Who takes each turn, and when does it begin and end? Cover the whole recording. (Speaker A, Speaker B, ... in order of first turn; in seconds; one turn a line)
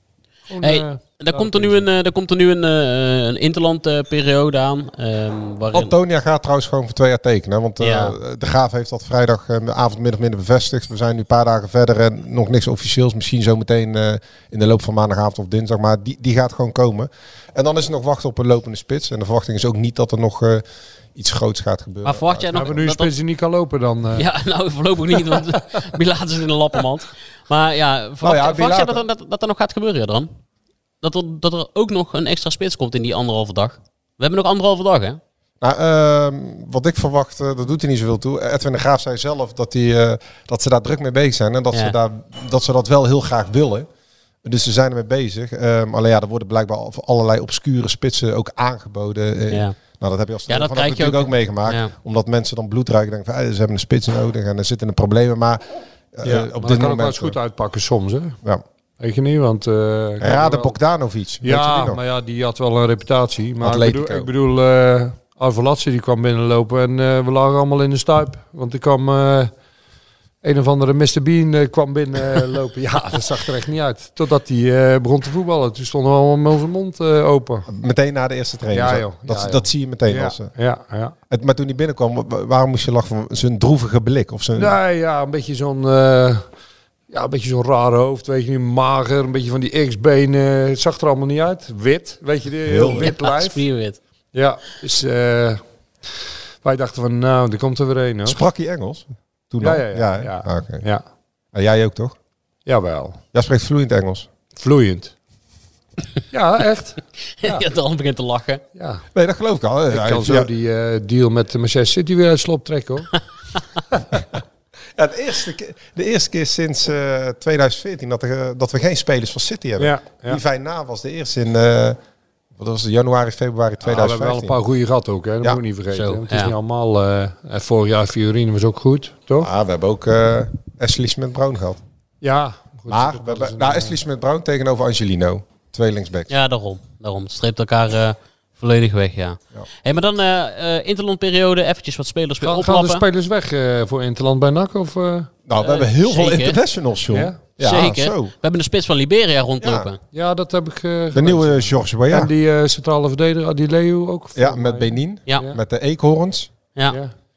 Speaker A: 0.5-1.9
Speaker B: 0.6-5.9
Speaker C: 5.7-22.8
Speaker B: 7.8-8.2
Speaker B: 22.0-23.1
Speaker A: 22.6-24.3
Speaker B: 24.2-30.3
Speaker C: 28.2-29.0
Speaker B: 31.0-35.2
Speaker C: 35.6-43.9
Speaker C: 44.4-57.4
Speaker B: 49.5-49.8
Speaker B: 50.5-51.9
Speaker A: 56.2-58.4
Speaker A: 59.0-60.8
Speaker C: 60.2-62.0
Speaker A: 61.4-69.5
Speaker C: 63.6-64.3
Speaker A: 70.4-77.7
Speaker C: 77.7-80.5
Speaker A: 78.7-81.2
Speaker C: 81.3-84.8
Speaker A: 84.6-86.5
Speaker A: 87.1-93.6
Speaker C: 92.7-93.1
Speaker B: 93.0-94.0
Speaker A: 94.3-95.6
Speaker A: 96.6-98.4
Speaker C: 98.2-100.8
Speaker A: 99.6-101.0
Speaker C: 101.5-102.2
Speaker A: 102.7-103.2
Speaker C: 103.3-104.3
Speaker A: 104.6-105.1
Speaker A: 106.3-107.6
Speaker B: 107.4-108.6
Speaker A: 108.8-109.0
Speaker C: 109.2-110.5
Speaker A: 109.9-113.2
Speaker C: 115.0-122.0
Speaker A: 119.8-120.4
Speaker C: 122.6-124.6
Speaker A: 123.8-129.5
Speaker B: 125.9-126.5
Speaker C: 129.4-131.8
Speaker A: 132.2-134.0
Speaker C: 132.9-136.3
Speaker B: 136.3-143.0
Speaker A: 142.4-145.3
Speaker C: 145.5-148.3
Speaker B: 145.6-146.6
Speaker A: 147.1-147.4
Speaker B: 147.6-150.0
Speaker C: 149.6-149.9
Speaker A: 150.1-155.6
Speaker C: 151.1-152.3
Speaker C: 154.3-156.5